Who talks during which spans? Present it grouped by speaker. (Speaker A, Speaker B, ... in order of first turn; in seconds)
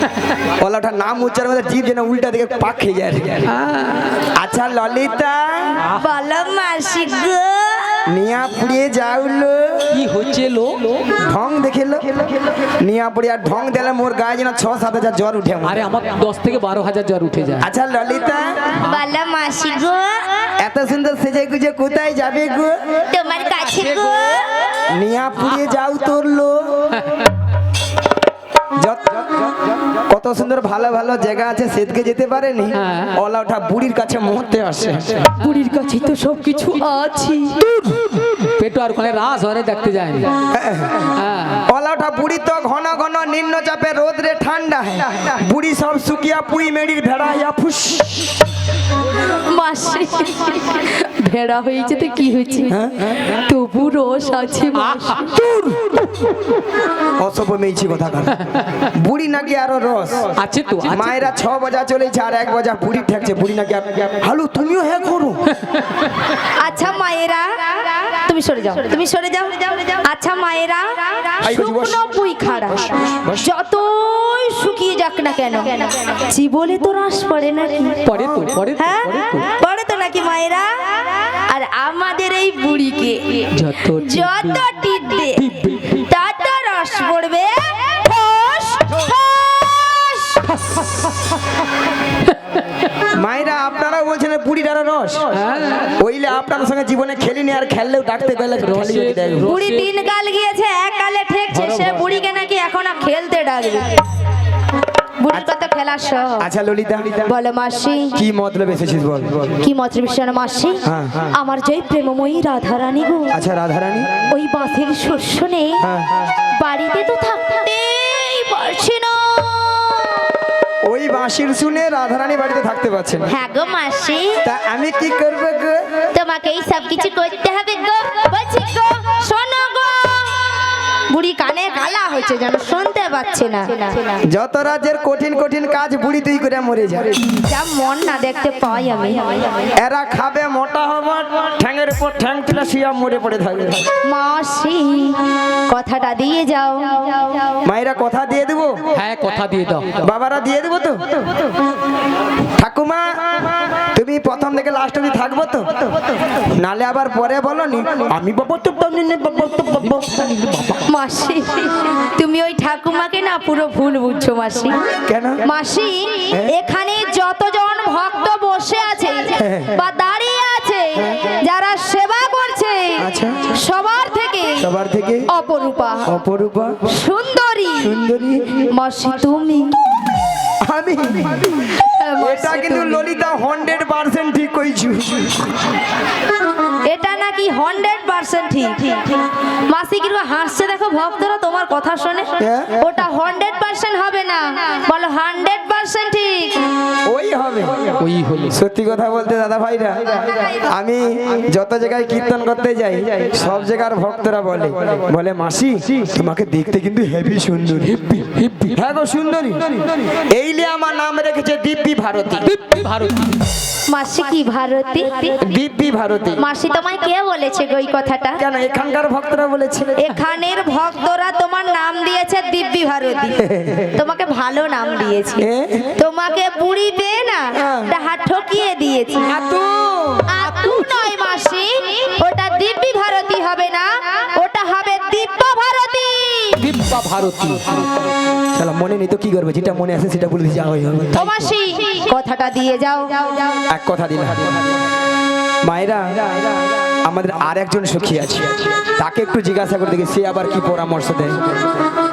Speaker A: 0.6-3.5, 4.3-5.8, 8.1-9.9, 11.2-15.8, 17.6-18.7, 20.6-23.0, 24.9-26.9, 28.8-29.5, 30.1-35.3, 40.5-41.1, 41.7-48.4, 52.7-53.4, 55.4-56.0, 57.2-58.4, 58.9-60.4, 60.9-65.4, 71.4-72.0, 72.7-73.5, 78.2-78.5, 93.1-95.2, 96.0-99.5, 106.4-107.3, 108.1-109.5, 110.8-111.3, 113.3-114.2, 115.8-116.3, 120.8-123.3, 124.4-126.0, 134.2-137.2, 139.8-143.9, 147.6-148.8, 150.0-151.2, 152.6-155.9, 156.5-160.0, 165.1-165.4, 169.4-169.8, 171.0-171.2, 173.0-173.6, 174.6-175.3, 176.1-176.8, 177.8-178.7, 180.6-181.7, 182.2-185.7, 192.4-192.8, 197.1-198.0, 198.5-207.9, 208.7-212.4, 215.4-216.4, 218.4-220.1, 223.4-223.9, 225.4-225.9, 227.6-227.9, 229.3-230.3, 238.5-241.2, 243.7-244.7, 245.6-251.4
Speaker B: 3.5-4.2, 9.9-11.1, 15.6-17.7, 23.6-24.1, 26.9-27.3, 32.7-33.1, 35.4-36.8, 37.7-40.3, 41.2-41.6, 54.7-55.3, 60.4-61.3, 65.6-66.1, 78.0-79.5, 83.5-84.6, 85.3-86.1, 90.6-91.1, 92.2-92.6, 95.3-96.0, 98.6-99.9, 101.5-102.0, 148.9-150.1, 159.7-160.9, 198.0-198.6, 207.8-208.8, 212.4-213.4, 236.6-237.9
Speaker C: 5.9-8.1, 18.8-20.5, 23.1-24.7, 36.7-37.6, 49.5-52.7, 53.4-55.0, 66.6-72.9, 73.4-78.0, 78.8-90.5, 99.4-104.0, 105.2-106.5, 107.2-108.2, 109.6-113.3, 114.3-115.8, 116.5-120.3, 123.3-124.4, 126.1-134.2, 137.4-139.7, 144.0-145.2, 145.7-147.6, 160.9-164.8, 165.4-174.7, 175.3-176.1, 176.9-177.9, 178.7-179.7, 181.8-183.0, 186.8-196.6, 213.9-215.4, 216.4-218.4, 220.0-223.4, 223.9-225.5, 226.0-229.3, 230.3-236.6, 241.1-243.5